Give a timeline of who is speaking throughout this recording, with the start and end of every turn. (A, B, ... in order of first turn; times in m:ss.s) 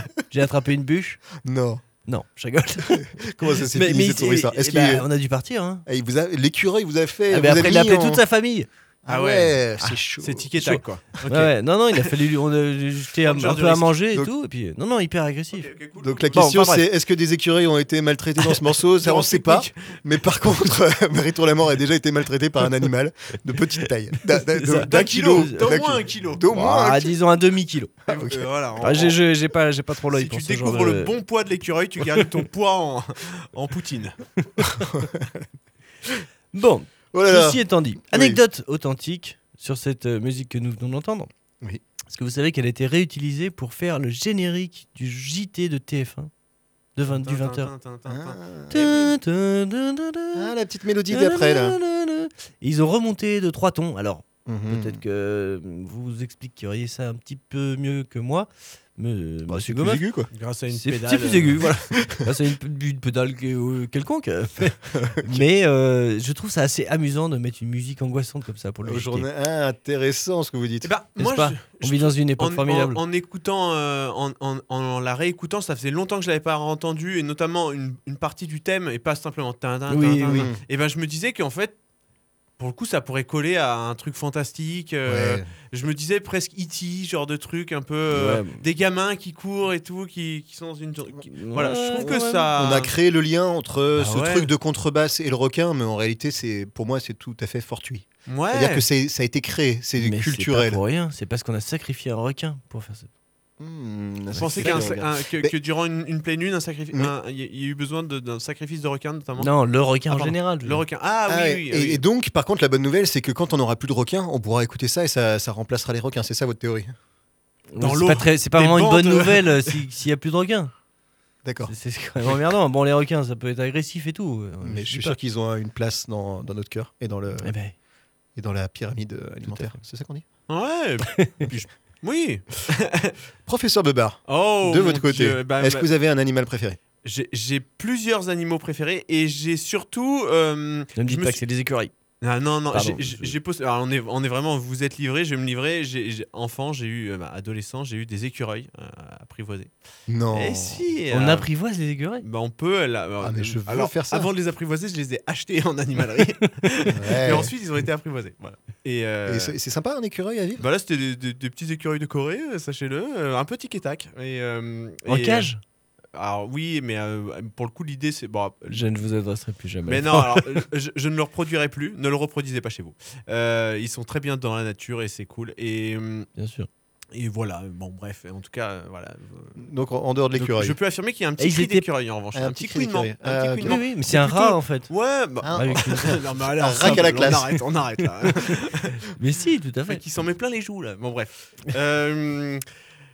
0:00.3-0:01.2 A
0:01.4-0:01.8 B
0:02.0-0:03.2 A
0:03.1-0:05.0 B
0:03.7-0:05.8 A
0:05.8-0:08.2 B
0:07.3-0:08.7 A
0:09.0-0:10.5 B
0:09.1-0:09.6 C
0:10.2-0:12.1 C
0:10.6-0:15.7 A
0:13.2-0:13.9 C
0:15.5-0:16.4 C
0:16.0-0:27.2 B
0:16.3-0:16.8 A
0:19.0-0:20.0 C
0:24.3-0:25.7 A
0:24.8-0:26.5 C
0:26.5-0:28.0 A
0:28.1-0:29.2 C
0:28.1-0:28.4 B
0:28.8-0:31.1 A
0:30.1-0:34.2 C
0:34.9-0:35.4 B
0:36.5-0:41.3 A
0:37.1-0:38.4 B
0:42.1-0:46.3 A
0:47.0-0:47.7 A
0:47.0-0:48.4 C
0:48.1-0:49.1 B
0:48.7-0:50.5 A
0:50.3-0:51.8 B
0:51.1-1:00.0 A
0:54.4-0:55.0 B
0:59.5-1:00.3 B
1:00.3-1:01.7 C
1:00.7-1:09.3 A
1:04.8-1:05.4 B
1:08.8-1:10.9 B
1:10.8-1:21.8 C
1:11.2-1:13.0 A
1:19.9-1:20.5 A
1:20.3-1:20.6 B
1:22.6-1:32.9 C
1:25.0-1:25.4 B
1:28.1-1:28.6 A
1:31.3-1:32.5 A
1:32.0-1:40.8 B
1:34.0-1:34.5 C
1:38.3-1:38.8 C
1:40.0-1:43.1 A
1:43.6-1:45.5 B
1:44.3-1:45.1 A
1:44.4-1:49.5 C
1:49.4-1:50.8 A
1:50.1-1:52.0 C
1:51.3-1:56.9 B
1:57.7-2:00.7 A
1:57.8-1:59.7 C
2:01.4-2:01.7 B
2:01.7-2:05.2 A
2:04.6-2:07.5 B
2:07.4-2:07.7 A
2:08.4-2:10.2 B
2:09.5-2:09.8 A
2:10.5-2:13.1 C
2:13.5-2:16.8 B
2:14.3-2:15.9 C
2:17.0-2:21.4 C
2:21.0-2:21.9 A
2:22.2-2:29.7 C
2:22.7-2:23.4 A
2:30.1-2:30.8 B
2:30.3-2:31.5 C
2:31.1-2:32.2 A
2:32.2-2:39.5 C
2:33.2-2:34.3 B
2:36.9-2:37.5 B
2:39.3-2:40.7 B
2:40.6-2:45.5 C
2:45.1-2:45.6 A
2:46.1-2:48.8 C
2:48.7-2:50.6 A
2:49.8-2:56.3 C
2:56.4-2:56.7 A
2:57.1-2:59.6 C
2:59.6-3:00.8 B
3:00.3-3:09.0 C
3:01.4-3:01.8 A
3:02.3-3:03.8 B
3:03.6-3:04.9 A
3:05.4-3:07.5 B
3:05.5-3:06.2 A
3:06.8-3:07.5 A
3:09.2-3:10.0 A
3:09.9-3:12.6 C